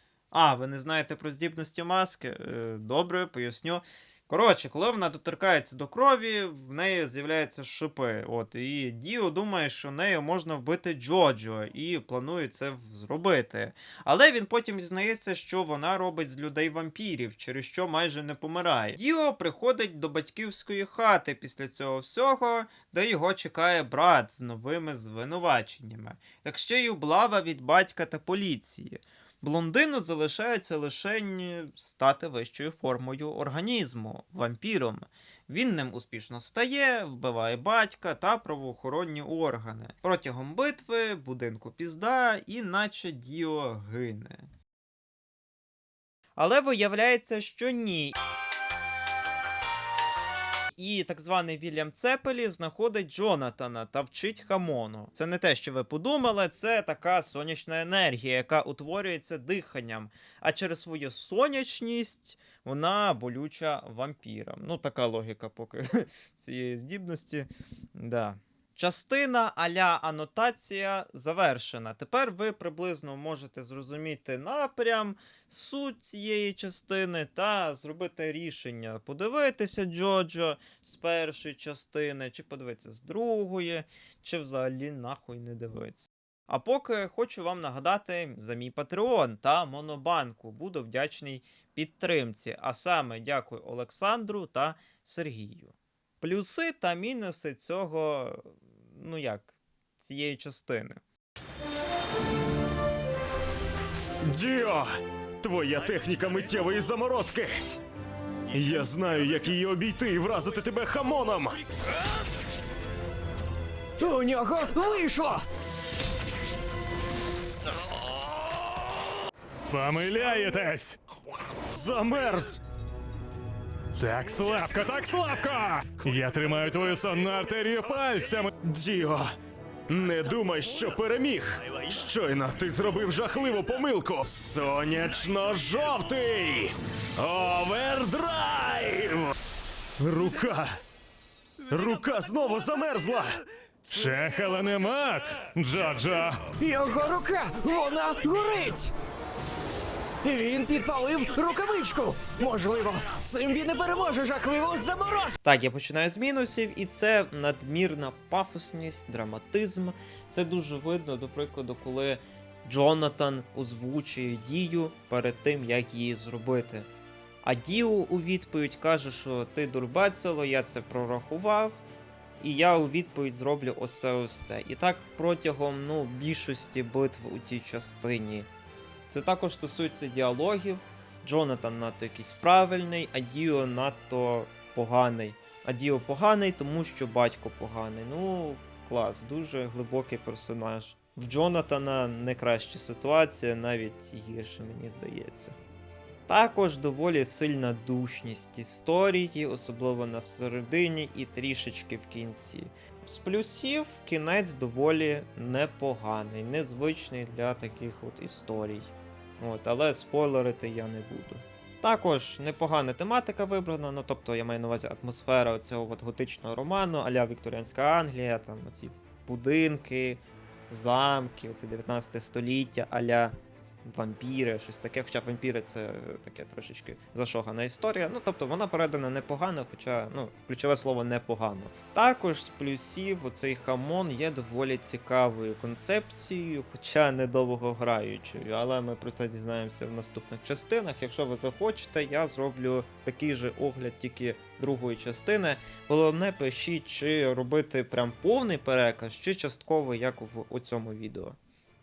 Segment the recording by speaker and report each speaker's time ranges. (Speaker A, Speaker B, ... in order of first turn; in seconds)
Speaker A: 0.3-44.5, 46.4-48.1, 50.8-101.0, 155.4-166.9, 167.4-171.8, 172.4-178.5, 179.1-195.5, 196.3-251.4
Speaker B: 104.2-104.8, 105.4-107.6, 108.5-111.6, 121.7-122.6, 128.6-129.3, 129.9-139.3, 140.0-140.8, 141.7-143.3
Speaker C: 114.0-115.4, 146.6-148.9, 150.2-155.3
Speaker D: 119.7-121.0, 124.0-128.5, 143.9-146.4